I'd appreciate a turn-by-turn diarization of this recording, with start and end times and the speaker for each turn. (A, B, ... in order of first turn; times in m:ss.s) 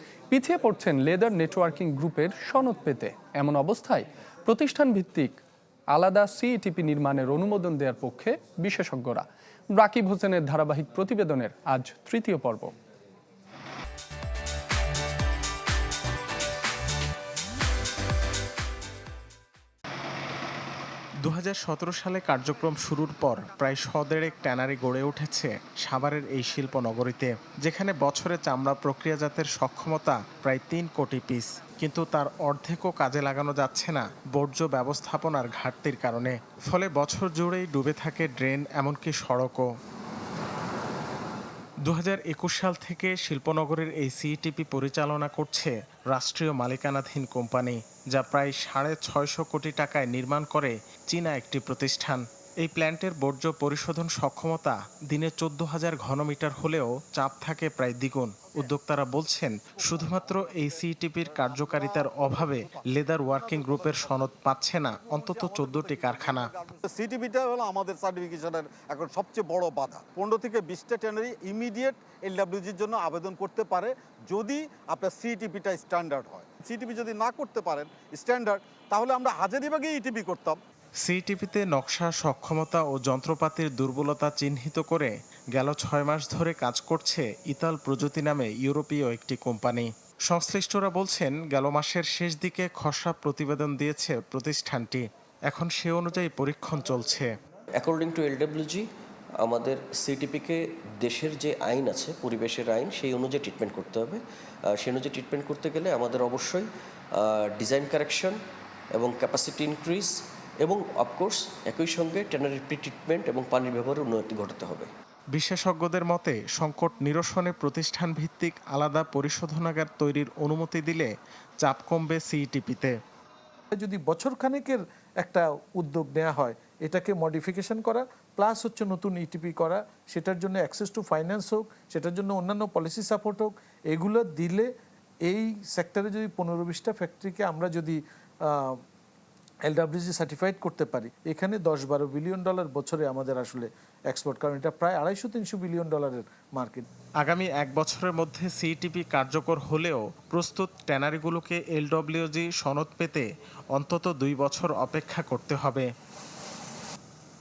0:00.3-0:05.4 A
0:05.9-0:12.7 A
0:21.2-0:39.6 B
0:41.9-1:06.5 B
1:01.3-1:02.8 C
1:03.5-1:04.0 C
1:05.1-1:20.6 C
1:21.0-1:37.3 B
1:37.8-1:38.9 D
1:39.4-1:44.2 D
1:44.8-1:48.4 D
1:49.0-1:54.9 D
1:55.3-2:01.1 B
2:01.6-2:02.9 B
2:03.7-2:14.7 E
2:15.3-2:18.8 E
2:19.6-2:26.9 E
2:27.2-2:35.9 B